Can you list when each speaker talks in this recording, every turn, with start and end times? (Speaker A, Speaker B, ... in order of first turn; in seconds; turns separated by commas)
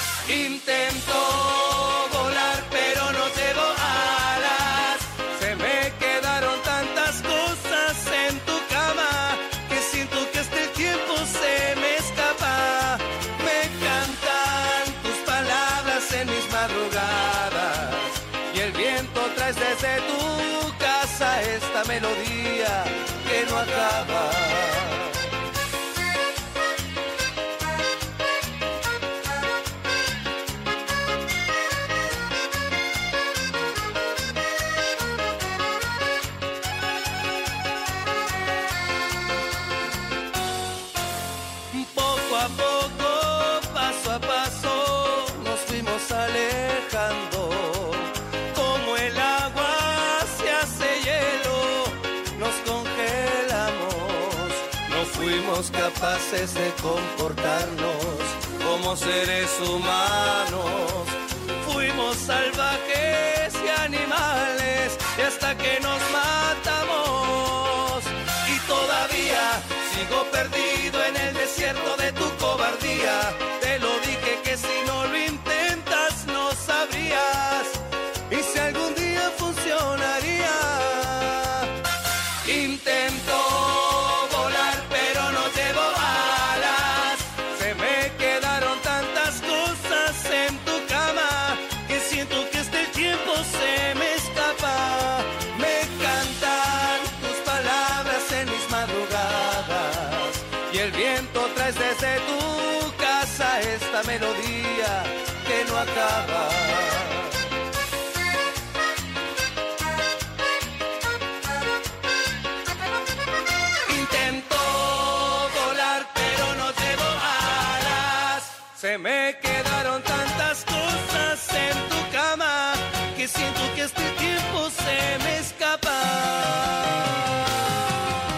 Speaker A: 0.2-25.3, Speaker A: 41.7-81.7, Speaker A: 82.4-107.5, Speaker A: 113.9-127.1